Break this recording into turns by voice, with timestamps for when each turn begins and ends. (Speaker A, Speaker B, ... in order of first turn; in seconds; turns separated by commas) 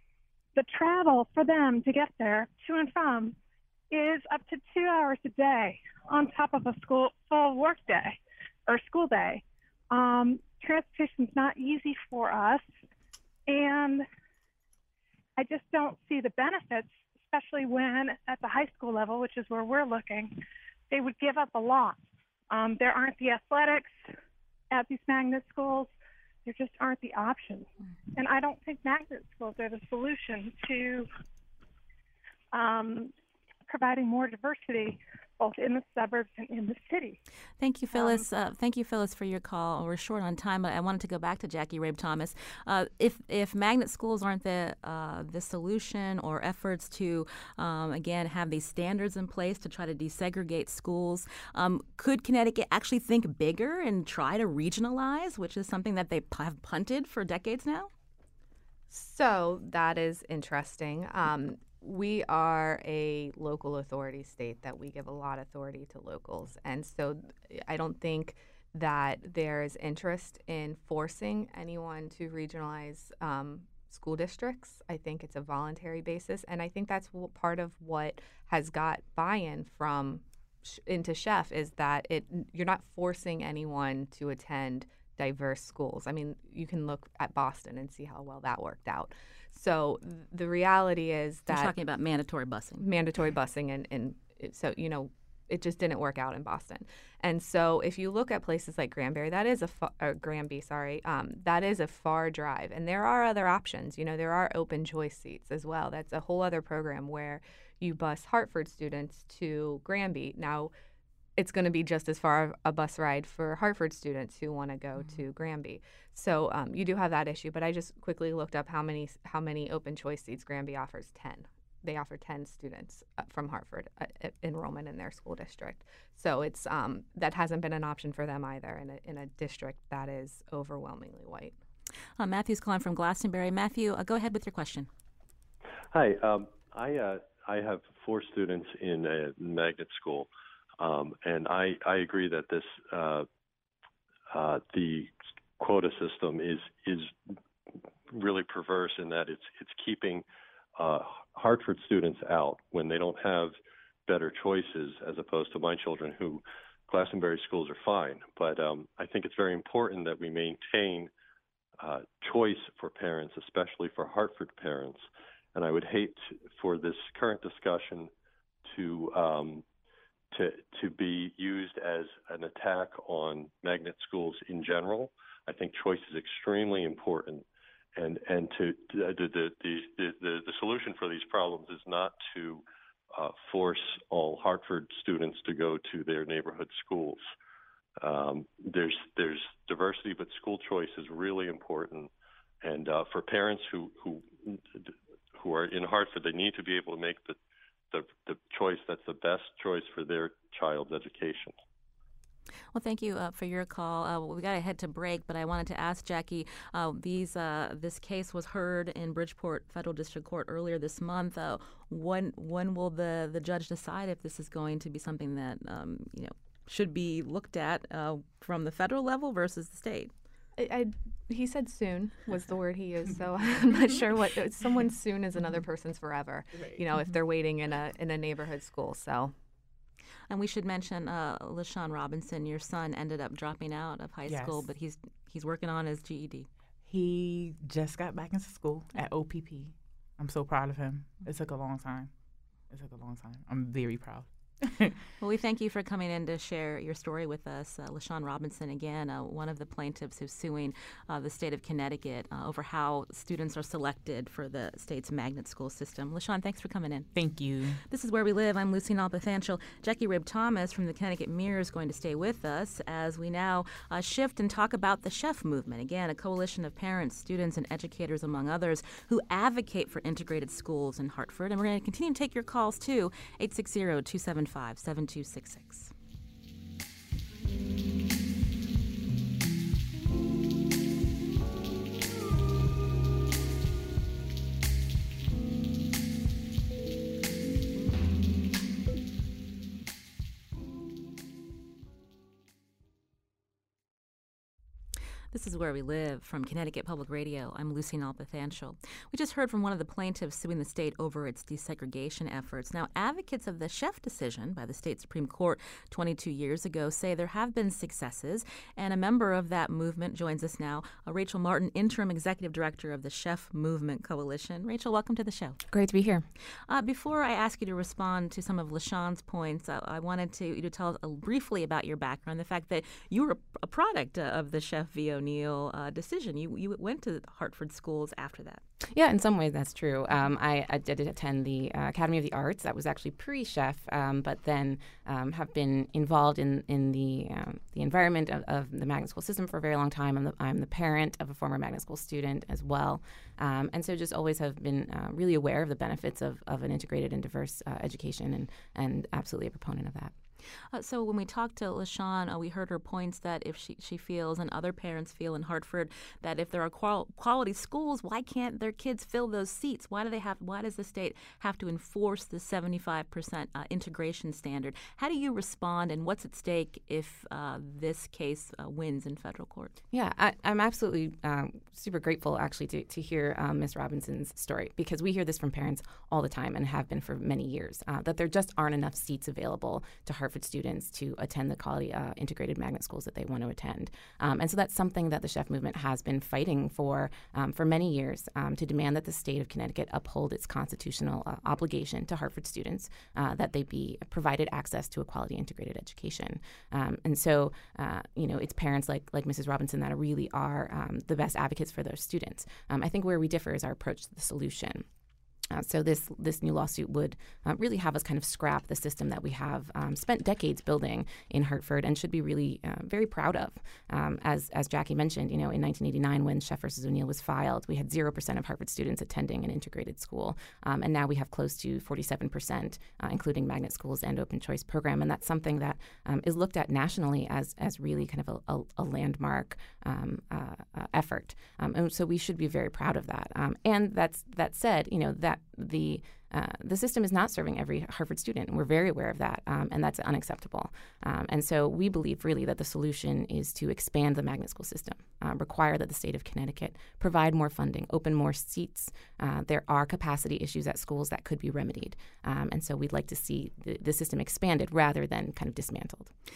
Speaker A: 0.5-3.3, Speaker A: 3.9-12.6, Speaker A: 13.5-14.0, Speaker A: 15.4-22.0, Speaker A: 22.5-23.9, Speaker A: 24.7-25.9, Speaker A: 26.4-31.1, Speaker A: 32.5-33.1, Speaker A: 33.7-37.2, Speaker B: 37.6-57.9, Speaker A: 37.9-38.2, Speaker C: 58.9-91.7, Speaker B: 91.5-92.8, Speaker C: 92.8-110.7, Speaker C: 111.4-131.5, Speaker B: 132.2-134.9, Speaker D: 135.9-143.3, Speaker D: 144.3-147.2, Speaker D: 148.1-150.2, Speaker D: 150.8-153.6, Speaker D: 154.1-161.1, Speaker D: 161.8-168.1, Speaker D: 168.7-169.6, Speaker D: 170.3-187.2, Speaker D: 188.0-192.1, Speaker D: 192.6-197.4, Speaker D: 197.9-201.6, Speaker B: 202.7-220.1, Speaker C: 220.6-229.3, Speaker B: 230.3-236.5, Speaker E: 234.3-234.6, Speaker E: 236.8-242.1, Speaker E: 242.7-245.0, Speaker B: 245.2-257.1, Speaker E: 257.1-257.8, Speaker B: 257.9-275.9, Speaker B: 295.3-315.6, Speaker F: 315.7-316.2, Speaker B: 316.7-328.6, Speaker F: 328.9-350.1, Speaker B: 350.7-369.7, Speaker F: 369.9-404.9, Speaker F: 405.5-456.1